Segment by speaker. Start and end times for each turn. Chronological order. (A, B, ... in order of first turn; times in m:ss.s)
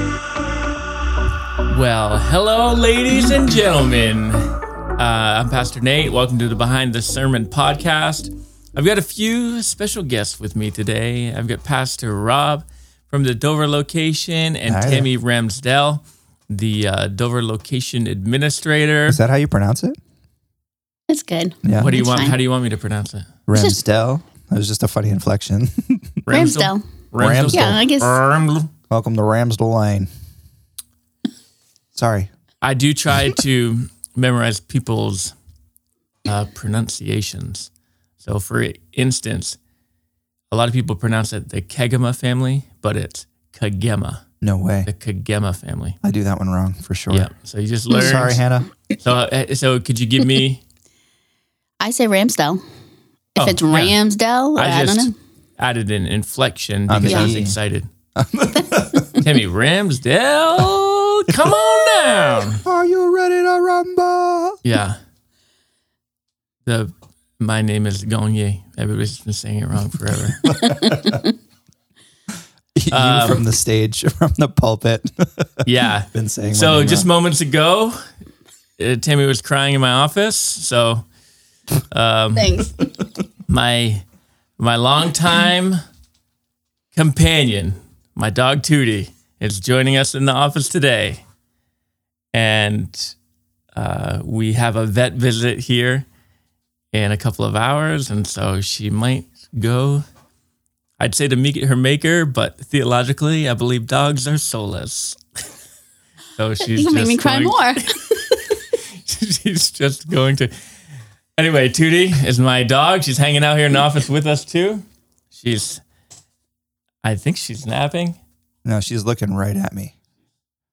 0:01.7-0:19.2 A
0:14.7-0:15.1 B
0:19.1-0:20.0 B
0:21.1-0:22.4 C
0:21.6-0:21.9 B
0:21.8-0:23.3 A
0:23.5-0:26.2 B
0:26.3-0:28.7 A
0:26.3-0:26.8 C
0:27.2-0:27.8 B
0:27.5-0:28.2 C
0:28.9-0:30.1 B
0:32.0-0:32.3 B
0:32.6-0:35.3 A
0:36.2-0:37.7 A
0:38.2-0:39.6 A
0:40.5-0:44.2 A
0:44.4-0:44.9 B
0:44.9-0:46.0 A
0:46.0-0:47.3 B
0:47.1-0:48.4 A
0:47.9-0:48.7 B
0:49.0-0:50.6 A
0:51.8-0:52.6 C
0:53.4-0:54.0 A
0:53.4-0:55.1 C
0:54.6-0:57.9 A
0:56.9-0:57.6 B
0:57.0-0:57.3 C
0:58.2-0:59.3 B
0:59.2-1:02.6 A
1:02.6-1:04.6 B
1:04.6-1:05.0 A
1:06.6-1:10.6 A
1:10.5-1:11.2 B
1:10.8-1:11.2 C
1:12.8-1:17.1 B
1:12.9-1:13.4 A
1:15.6-1:18.0 A
1:18.8-1:21.0 A
1:21.9-1:22.7 A
1:22.4-1:22.9 C
1:23.5-1:24.0 A
1:24.6-1:25.8 A
1:26.9-1:31.2 A
1:32.3-1:33.2 A
1:33.8-1:36.1 A
1:36.9-1:40.0 A
1:41.0-1:45.2 A
1:46.4-1:50.5 A
1:46.8-1:48.2 C
1:51.4-1:55.8 A
1:57.0-1:58.2 A
1:58.6-1:59.9 B